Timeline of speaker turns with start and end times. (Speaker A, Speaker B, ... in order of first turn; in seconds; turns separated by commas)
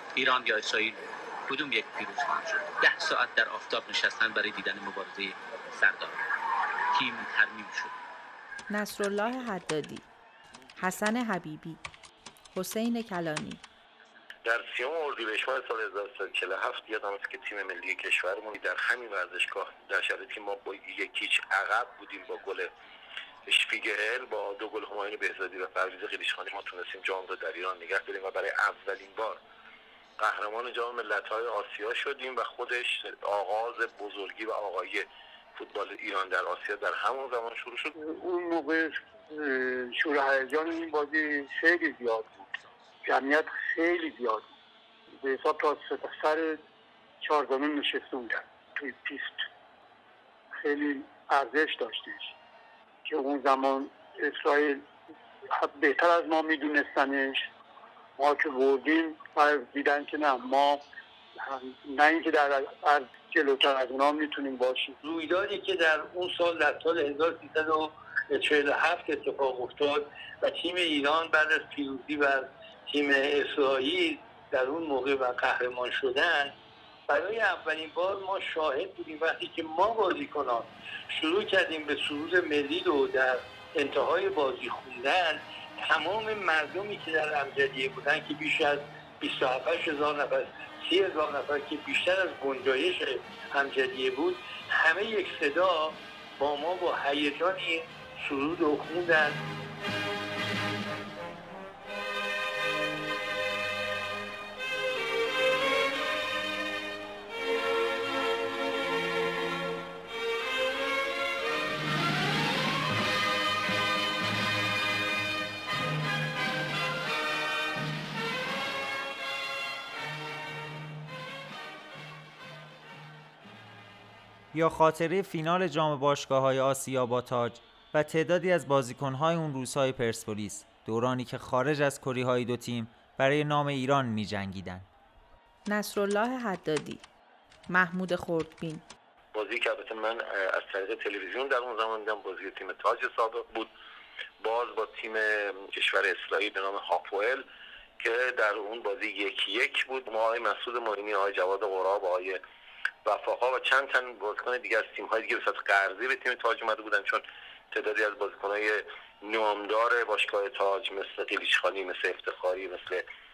Speaker A: 0.1-6.2, Speaker A: 6.9-7.9, Speaker B: 8.7-10.0, Speaker B: 10.8-11.8, Speaker B: 12.5-13.6, Speaker C: 14.4-22.7, Speaker C: 23.5-29.4, Speaker C: 30.2-37.9, Speaker D: 38.0-42.3, Speaker D: 43.0-44.5, Speaker D: 45.2-46.5, Speaker D: 47.2-49.3, Speaker D: 50.6-52.2, Speaker D: 53.1-54.8, Speaker D: 55.6-57.4, Speaker D: 58.2-60.8, Speaker D: 61.5-65.0, Speaker E: 65.0-76.5, Speaker E: 77.1-99.3, Speaker F: 124.5-134.8, Speaker B: 135.7-137.0, Speaker B: 137.7-138.8, Speaker C: 139.3-143.7, Speaker C: 144.4-147.4, Speaker C: 148.0-152.4, Speaker C: 153.0-163.0